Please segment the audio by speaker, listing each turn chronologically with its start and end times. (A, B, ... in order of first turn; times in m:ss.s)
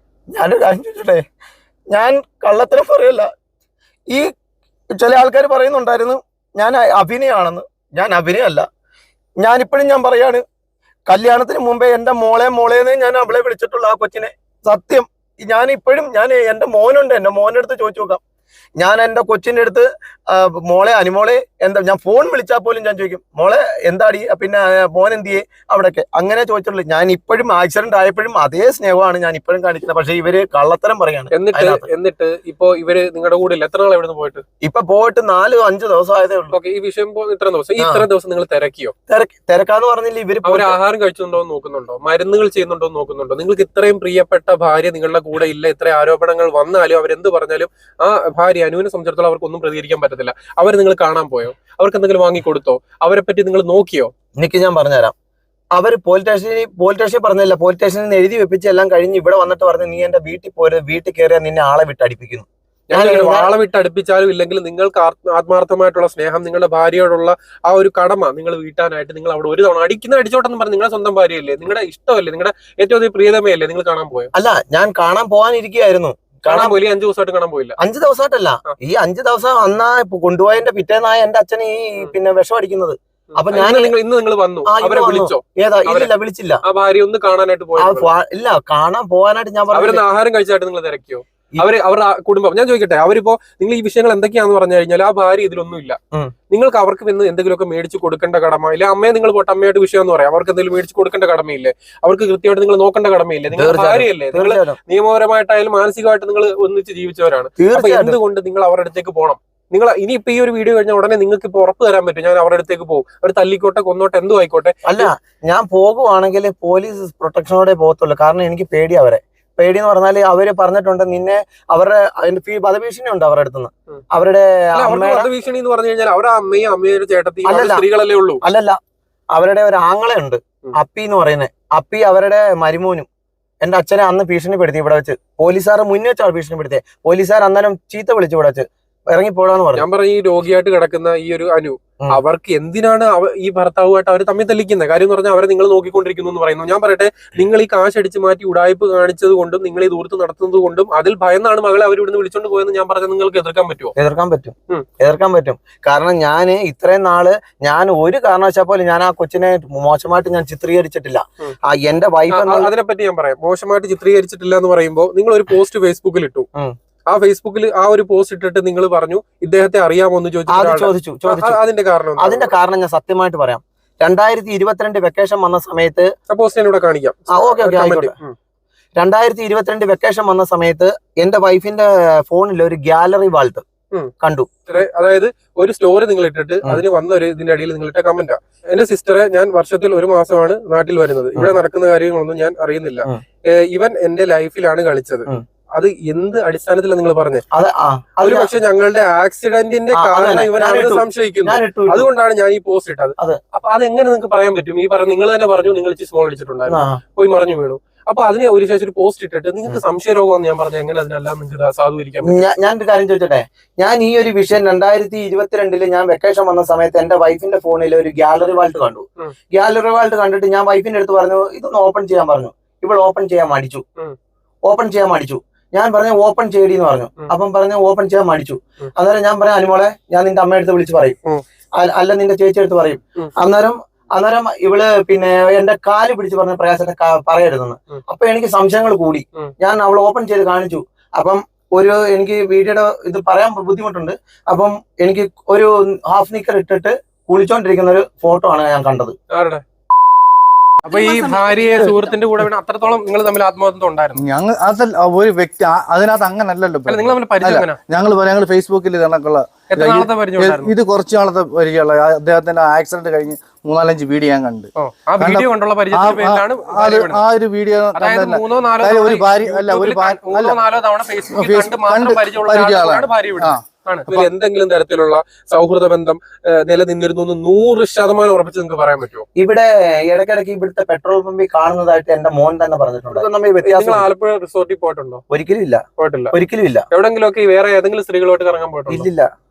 0:00.3-0:01.2 A
0:01.9-0:03.3 A
0:04.9-0:08.7 A
0:09.4-0:10.4 A
0:11.1-0:18.2 A
0:18.8-0:31.9 A
0:31.3-0:34.4 B
0:34.6-0:36.5 A
0:36.5-0:38.9 B
0:37.8-0:38.1 A
0:39.1-0:40.8 A
0:40.4-0:54.1 B
0:54.4-0:55.1 A
0:55.7-1:03.5 A
1:02.9-1:14.3 B
1:14.3-1:16.8 A
1:16.5-1:17.8 B
1:17.8-1:23.9 A
1:23.4-1:26.1 B
1:24.6-1:26.6 A
1:26.6-1:28.1 B
1:27.8-1:30.0 A
1:29.7-1:36.0 B
1:36.5-1:55.1 B
1:43.5-1:44.8 A
1:47.6-1:48.2 A
1:54.8-2:05.3 A
2:04.7-2:08.4 B
2:07.4-2:07.8 A
2:08.4-2:08.8 A
2:09.3-2:13.1 A
2:13.6-2:19.8 A
2:19.8-2:33.9 B
2:34.0-2:42.7 A
2:42.3-2:46.5 B
2:47.1-2:52.5 B
2:50.5-2:51.6 A
2:52.2-2:56.1 A
2:56.3-2:58.3 B
2:57.3-2:58.1 A
2:59.0-3:03.6 A
3:04.2-3:04.6 A
3:04.7-3:17.4 B
3:17.5-3:18.5 A
3:18.2-3:32.5 B
3:19.9-3:22.1 A
3:26.7-3:27.0 A
3:32.2-3:43.8 A
3:44.7-3:51.2 A
3:51.8-4:09.2 A
4:09.3-4:09.6 B
4:10.8-4:14.2 B
4:10.9-4:12.1 C
4:14.2-4:30.6 C
4:16.9-4:17.8 B
4:19.7-4:20.7 B
4:24.8-4:27.2 B
4:27.9-4:39.2 B
4:31.3-4:34.3 C
4:39.4-4:44.1 A
4:43.1-4:45.2 B
4:45.3-4:46.8 A
4:46.0-4:46.3 B
4:46.9-4:49.1 B
4:48.9-4:49.3 A